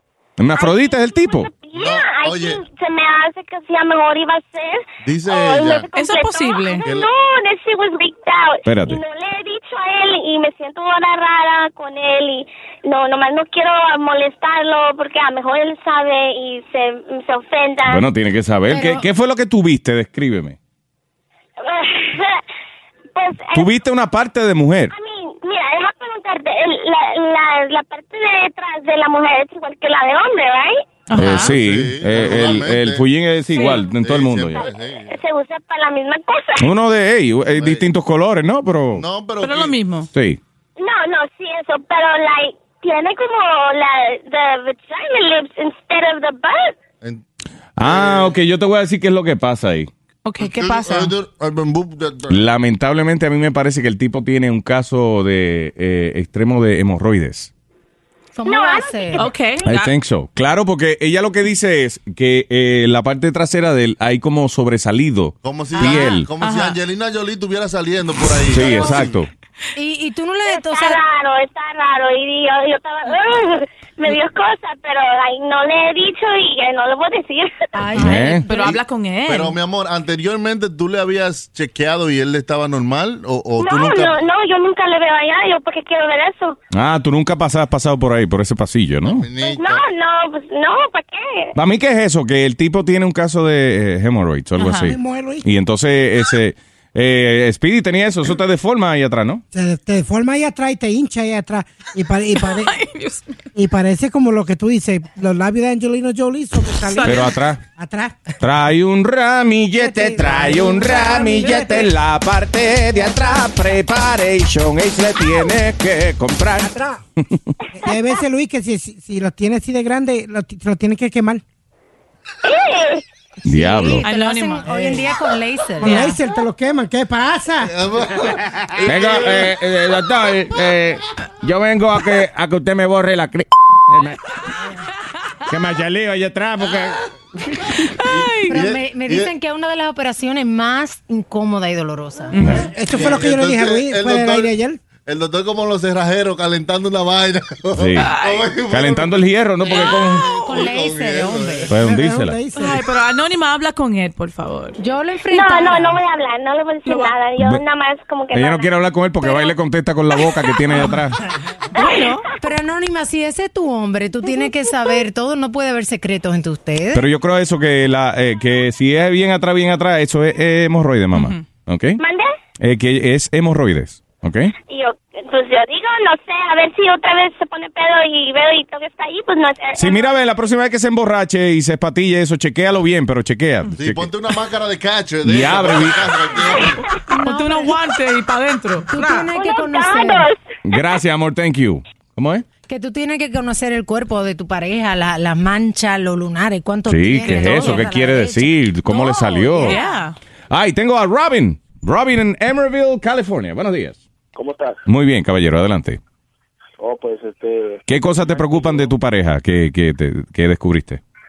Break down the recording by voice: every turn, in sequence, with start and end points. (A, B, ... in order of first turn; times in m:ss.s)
0:00.4-0:01.5 A
0:00.6-0:18.0 B
0:01.7-0:02.6 C
0:05.0-0:05.9 C
0:05.9-0:06.8 D
0:06.8-0:07.1 C
0:08.7-0:09.0 A
0:17.8-0:20.6 A
0:18.7-0:19.0 E
0:21.6-0:22.4 B
0:23.2-0:23.7 B
0:23.5-0:24.9 A
0:24.9-0:30.8 B
0:31.1-0:31.5 D
0:31.2-0:34.7 A
0:31.2-0:35.1 C
0:34.6-0:36.7 B
0:36.6-0:39.0 A
0:37.4-0:37.9 C
0:38.9-0:39.8 C
0:39.4-0:40.1 D
0:40.1-0:40.4 A
0:40.8-0:46.8 B
0:47.8-0:49.9 A
0:47.8-0:48.4 C
0:50.2-0:51.1 D
0:50.4-0:52.4 C
0:52.3-0:57.5 A
0:58.4-0:59.3 E
0:58.4-0:59.2 B
0:59.2-0:59.9 D
0:59.6-1:06.3 A
1:05.4-1:09.2 C
1:05.8-1:06.1 E
1:06.4-1:06.8 D
1:08.5-1:09.3 A
1:09.8-1:11.0 E
1:10.5-1:17.5 B
1:17.8-1:18.6 E
1:18.0-1:19.6 D
1:18.0-1:18.5 A
1:18.5-1:24.2 C
1:23.6-1:26.6 B
1:26.7-1:29.3 A
1:29.0-1:29.8 C
1:29.4-1:31.5 B
1:31.6-1:39.4 A
1:34.6-1:35.0 D
1:34.8-1:35.4 F
1:39.5-1:42.7 F
1:42.4-1:43.2 D
1:43.6-1:48.3 F
1:46.9-1:47.2 D
1:47.0-1:47.6 A
1:48.4-1:57.4 A
1:49.8-1:51.9 F
1:53.0-1:53.4 F
1:56.6-1:57.0 F
1:57.8-2:01.4 F
2:02.4-2:03.0 B
2:03.4-2:04.0 A
2:03.5-2:06.2 E
2:04.0-2:04.7 D
2:04.7-2:05.1 F
2:05.8-2:07.7 F
2:05.8-2:06.2 D
2:07.6-2:09.5 C
2:08.8-2:14.2 A
2:15.5-2:17.0 A
2:18.0-2:18.5 D
2:18.1-2:19.3 C
2:18.5-2:22.4 E
2:22.4-2:22.7 A
2:22.6-2:24.8 F
2:22.9-2:31.8 C
2:27.8-2:28.1 A
2:28.0-2:28.5 D
2:28.7-2:30.2 A
2:30.4-2:31.7 E
2:31.7-2:32.4 A
2:31.8-2:32.8 F
2:32.6-2:34.8 D
2:34.8-2:36.0 E
2:35.3-2:38.7 B
2:36.9-2:37.2 D
2:37.4-2:37.6 A
2:38.3-2:41.2 A
2:41.8-2:42.2 D
2:41.8-2:47.0 E
2:46.9-2:52.0 A
2:51.1-2:51.4 D
2:52.0-2:52.3 B
2:52.6-2:54.5 A
2:54.7-3:00.1 B
2:59.8-3:04.1 A
3:03.8-3:06.8 C
3:05.2-3:06.0 A
3:07.1-3:09.3 D
3:07.2-3:07.8 E
3:08.9-3:10.3 E
3:09.3-3:10.4 B
3:10.6-3:12.4 A
3:12.7-3:20.0 E
3:16.9-3:19.8 A
3:17.3-3:17.8 D
3:19.6-3:20.2 D
3:20.5-3:24.0 A
3:24.4-3:24.8 G
3:24.9-3:26.0 A
3:26.8-3:28.9 G
3:27.9-3:31.0 A